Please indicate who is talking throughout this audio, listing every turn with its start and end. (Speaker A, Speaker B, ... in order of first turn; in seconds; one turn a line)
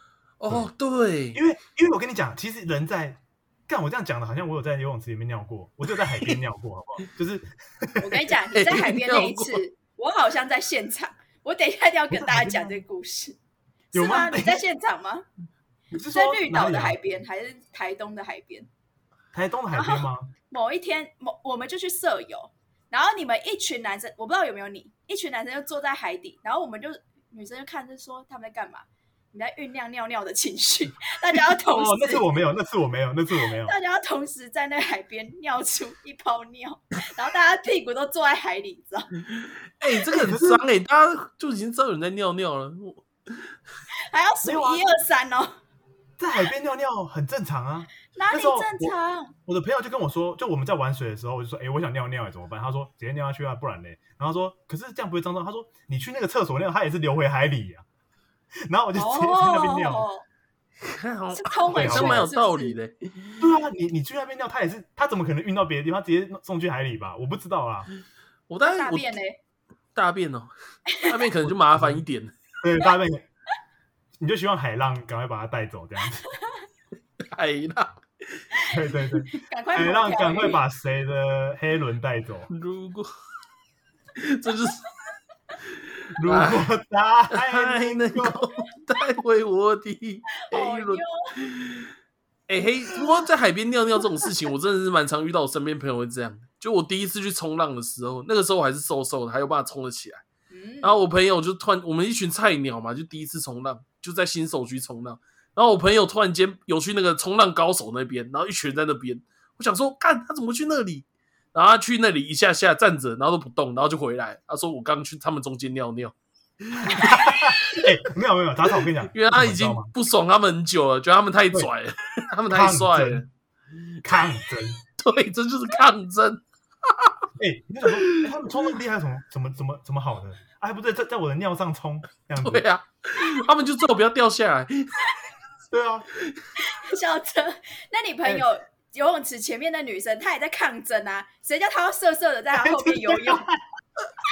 Speaker A: 0.4-1.4
Speaker B: 1.3-8.3
Speaker A: 6.1-6.4
Speaker C: 8.0-13.4
Speaker A: 8.5-9.6
Speaker B: 12.1-12.8
Speaker C: 13.9-15.3
Speaker B: 13.9-14.6
Speaker B: 15.9-17.0
Speaker C: 16.1-18.7
Speaker B: 19.3-20.3
Speaker C: 19.7-32.3
Speaker B: 31.7-33.8
Speaker C: 33.7-39.1
Speaker A: 39.3-43.5
Speaker B: 40.1-40.6
Speaker C: 44.1-45.5
Speaker B: 44.4-44.8
Speaker B: 46.2-48.9
Speaker C: 48.1-49.3
Speaker B: 49.5-57.9
Speaker B: 58.7-60.1
Speaker C: 59.0-60.2
Speaker A: 60.8-63.4
Speaker C: 61.3-62.8
Speaker B: 61.7-62.3
Speaker B: 63.4-67.9
Speaker A: 68.5-69.1
Speaker C: 68.6-69.4
Speaker A: 70.0-70.5
Speaker C: 70.9-71.2
Speaker A: 71.0-72.3
Speaker B: 71.8-72.0
Speaker B: 72.6-73.3
Speaker B: 74.2-76.3
Speaker A: 77.2-78.5
Speaker B: 78.7-82.5
Speaker C: 79.3-80.6
Speaker A: 82.5-83.1
Speaker A: 84.2-84.8
Speaker A: 85.7-86.7
Speaker B: 86.2-88.5
Speaker A: 87.3-91.9
Speaker C: 90.4-91.3
Speaker A: 92.5-100.2
Speaker C: 100.5-101.0
Speaker A: 100.8-116.1
Speaker A: 116.7-117.9
Speaker B: 116.8-119.9
Speaker A: 119.1-123.3
Speaker B: 122.5-123.2
Speaker B: 124.0-124.8
Speaker A: 125.0-127.2
Speaker B: 127.4-132.7
Speaker A: 127.9-128.3
Speaker A: 132.4-135.1
Speaker B: 135.7-136.1
Speaker A: 136.2-136.4
Speaker C: 136.6-143.4
Speaker B: 142.6-143.6